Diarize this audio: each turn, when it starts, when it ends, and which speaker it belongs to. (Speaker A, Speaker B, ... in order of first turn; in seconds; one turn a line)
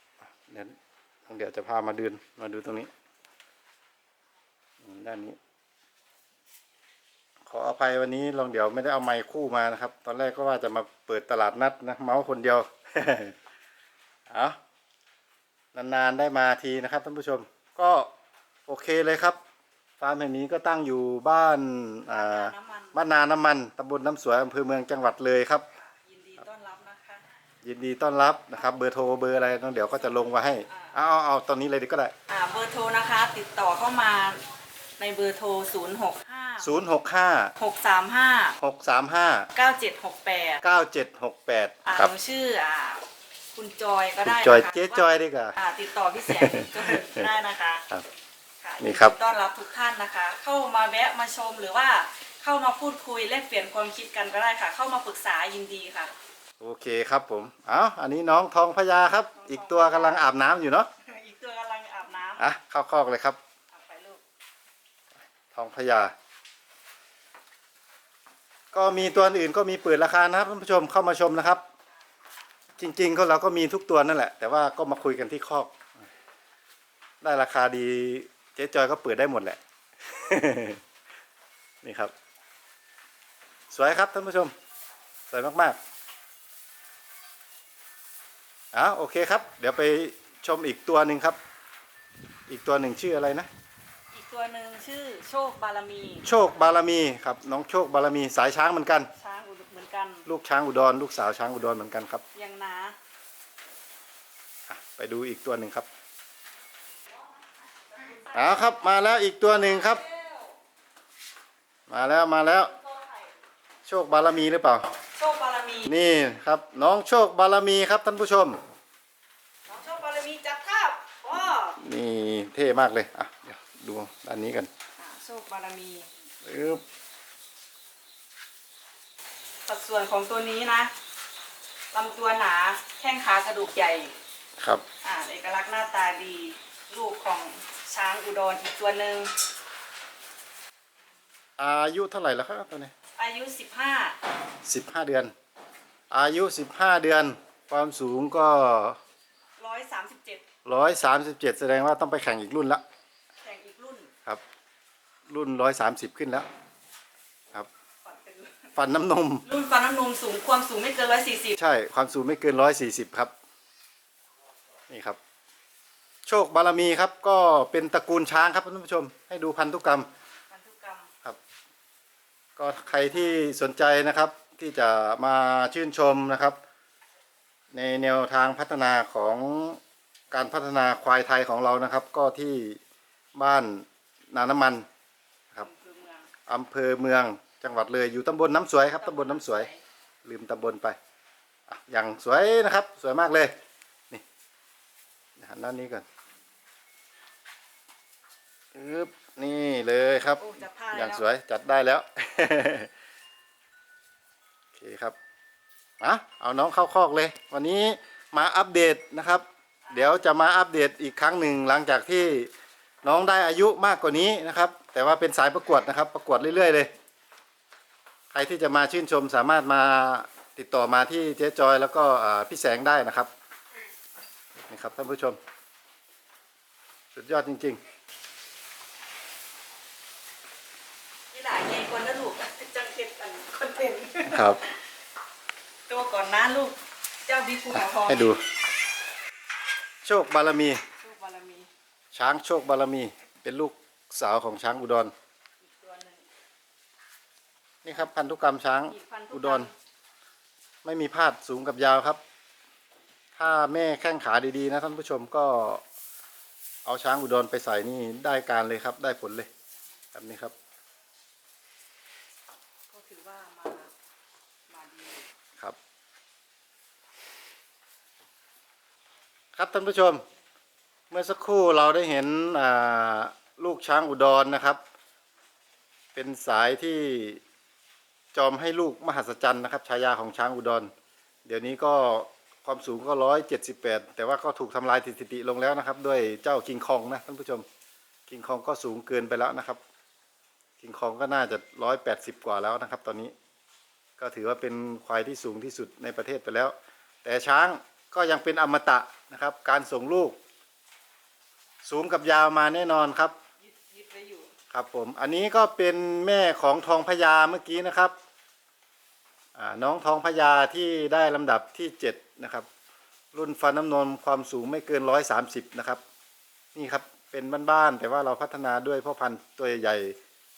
Speaker A: 0.5-2.9
Speaker A: 4.8-5.4
Speaker A: 7.5-13.3
Speaker A: 14.3-14.6
Speaker A: 15.7-18.1
Speaker A: 18.7-19.4
Speaker A: 20.0-25.7
Speaker B: 22.1-23.0
Speaker B: 25.9-27.2
Speaker A: 27.6-32.1
Speaker B: 30.6-31.0
Speaker B: 32.3-34.5
Speaker B: 35.0-36.8
Speaker A: 36.6-37.5
Speaker B: 37.6-38.6
Speaker A: 38.6-39.5
Speaker B: 39.5-40.6
Speaker A: 40.6-42.1
Speaker B: 41.9-47.9
Speaker A: 44.2-45.5
Speaker A: 46.3-47.3
Speaker B: 48.6-56.1
Speaker A: 48.8-49.1
Speaker A: 56.6-60.9
Speaker B: 59.4-60.3
Speaker B: 61.0-62.5
Speaker A: 62.4-63.4
Speaker B: 63.7-64.2
Speaker A: 65.5-66.1
Speaker A: 68.7-71.6
Speaker B: 68.8-69.3
Speaker A: 72.8-75.8
Speaker A: 77.2-80.8
Speaker A: 81.8-82.1
Speaker A: 83.7-84.5
Speaker A: 85.3-85.8
Speaker A: 88.7-91.4
Speaker A: 92.5-93.5
Speaker B: 94.1-96.3
Speaker A: 96.2-99.1
Speaker B: 99.2-100.3
Speaker A: 100.3-102.2
Speaker B: 102.3-103.0
Speaker A: 104.7-105.9
Speaker B: 107.9-108.7
Speaker A: 108.3-110.0
Speaker B: 109.7-110.5
Speaker A: 111.9-112.7
Speaker B: 112.8-113.2
Speaker A: 113.9-114.9
Speaker B: 115.2-115.9
Speaker A: 115.9-118.6
Speaker B: 119.7-121.8
Speaker A: 121.8-124.7
Speaker B: 125.0-126.1
Speaker A: 126.4-126.8
Speaker B: 129.7-130.9
Speaker B: 131.9-134.2
Speaker B: 135.0-139.3
Speaker A: 141.6-142.9
Speaker B: 143.2-144.2
Speaker A: 144.7-145.3
Speaker A: 146.1-149.0
Speaker B: 149.6-150.4
Speaker A: 150.7-152.8
Speaker B: 153.4-154.1
Speaker A: 155.3-156.5
Speaker B: 158.0-158.8
Speaker A: 158.8-159.4
Speaker B: 159.4-161.6
Speaker A: 161.6-163.3
Speaker A: 164.9-165.2
Speaker A: 166.3-170.1
Speaker B: 170.5-171.1
Speaker A: 172.6-176.6
Speaker B: 172.9-173.4
Speaker A: 177.7-179.8
Speaker A: 180.3-182.8
Speaker A: 183.3-184.9
Speaker B: 185.6-186.3
Speaker A: 186.5-189.7
Speaker B: 189.0-189.8
Speaker A: 190.2-191.0
Speaker A: 191.7-193.5
Speaker A: 195.4-196.1
Speaker A: 198.7-202.9
Speaker B: 200.4-201.3
Speaker A: 204.8-205.2
Speaker A: 206.0-212.5
Speaker B: 209.8-210.2
Speaker A: 213.0-216.9
Speaker A: 218.3-223.3
Speaker A: 224.7-225.4
Speaker A: 227.2-227.8
Speaker B: 231.3-234.7
Speaker A: 234.3-234.6
Speaker B: 235.9-238.4
Speaker A: 237.7-238.4
Speaker A: 240.0-240.8
Speaker B: 241.0-241.7
Speaker A: 242.1-245.1
Speaker B: 245.6-246.3
Speaker A: 247.8-249.7
Speaker B: 248.9-249.7
Speaker A: 250.8-252.2
Speaker A: 253.4-255.8
Speaker A: 256.9-259.5
Speaker A: 260.1-260.5
Speaker B: 262.9-263.9
Speaker B: 264.7-265.3
Speaker A: 269.6-270.2
Speaker A: 271.1-274.8
Speaker A: 276.1-277.4
Speaker A: 278.3-280.9
Speaker A: 281.4-287.6
Speaker A: 288.3-289.8
Speaker A: 290.8-293.3
Speaker A: 294.2-300.4
Speaker A: 301.8-303.4
Speaker B: 303.6-304.5
Speaker A: 304.7-308.1
Speaker A: 309.6-312.7
Speaker A: 313.3-316.0
Speaker A: 316.8-320.2